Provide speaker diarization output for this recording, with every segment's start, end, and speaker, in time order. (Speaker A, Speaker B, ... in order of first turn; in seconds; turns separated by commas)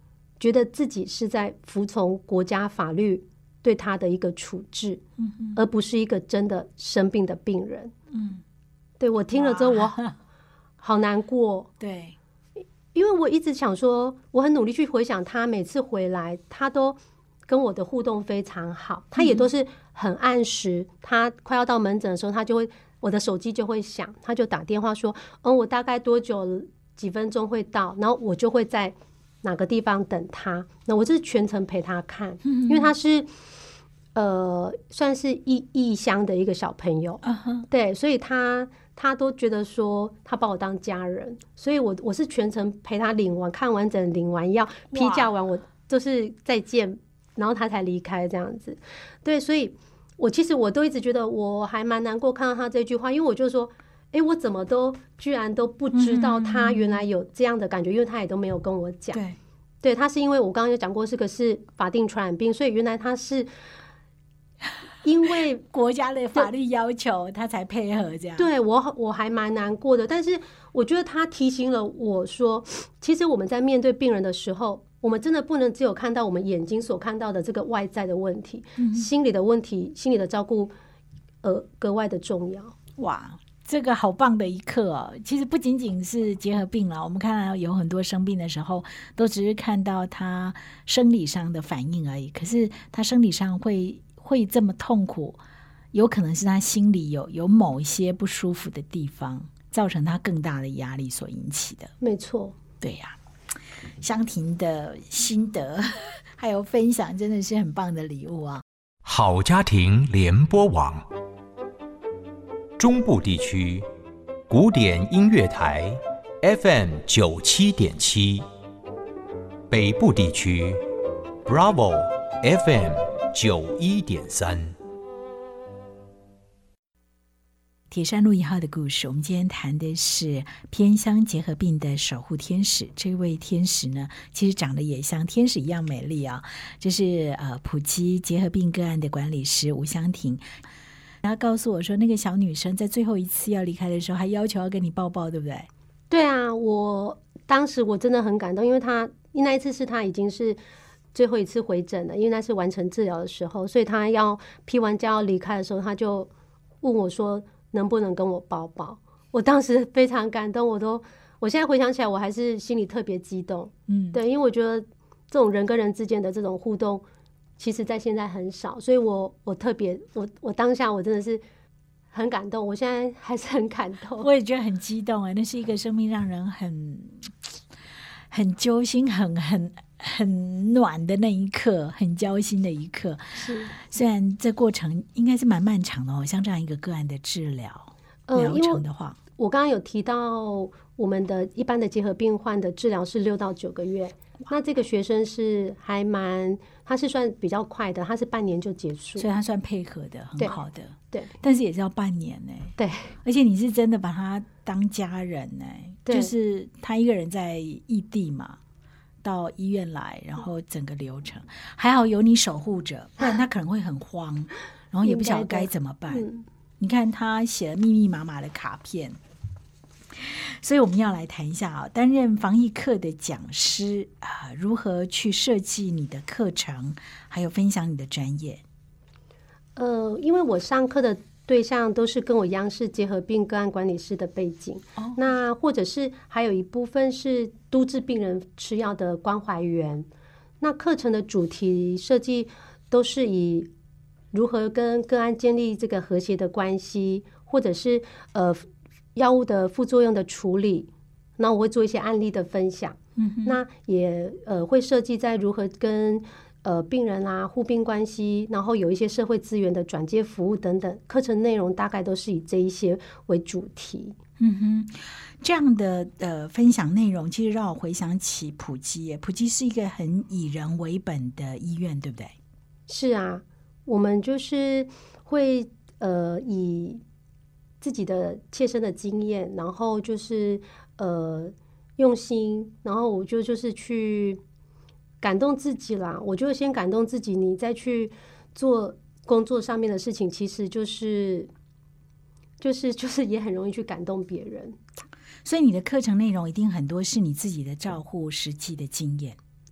Speaker A: 0.4-5.0, Speaker B: 5.2-5.6, Speaker A: 5.5-7.9, Speaker B: 8.1-8.4, Speaker A: 9.0-10.0, Speaker B: 9.3-10.1, Speaker A: 10.8-11.7, Speaker B: 11.8-12.2, Speaker A: 12.9-33.3, Speaker B: 19.2-19.4, Speaker B: 32.4-32.9, Speaker A: 34.1-59.2, Speaker B: 37.2-37.7, Speaker B: 44.9-45.3, Speaker B: 55.9-57.0, Speaker A: 59.8-63.5, Speaker A: 65.0-65.7, Speaker B: 65.7-68.5, Speaker A: 68.4-80.7, Speaker B: 78.8-79.1, Speaker A: 81.4-82.8, Speaker B: 83.0-95.4, Speaker B: 95.9-101.9, Speaker A: 102.0-102.6, Speaker B: 102.8-103.2, Speaker B: 104.0-108.6, Speaker C: 109.0-111.1, Speaker C: 112.8-113.9, Speaker C: 114.5-118.5, Speaker C: 119.7-120.8, Speaker C: 121.5-124.8, Speaker B: 127.9-140.4, Speaker B: 141.2-145.7, Speaker A: 146.1-150.6, Speaker A: 151.1-156.3, Speaker A: 156.8-167.1, Speaker B: 163.9-164.2, Speaker A: 167.6-171.4, Speaker A: 172.1-174.3, Speaker B: 174.2-177.5, Speaker B: 178.3-189.2, Speaker A: 183.4-183.7, Speaker A: 188.3-188.8, Speaker A: 189.4-199.3, Speaker B: 199.2-208.6, Speaker A: 202.8-203.2, Speaker A: 206.1-206.3, Speaker B: 209.2-216.3, Speaker A: 215.0-216.4, Speaker B: 216.8-219.2, Speaker B: 220.2-228.6, Speaker A: 229.8-240.1, Speaker A: 240.6-243.7, Speaker A: 244.3-264.2, Speaker B: 253.2-253.6, Speaker B: 264.4-272.4, Speaker A: 272.9-277.0, Speaker A: 277.8-284.4, Speaker A: 285.2-291.5, Speaker A: 292.6-294.8, Speaker B: 295.4-299.4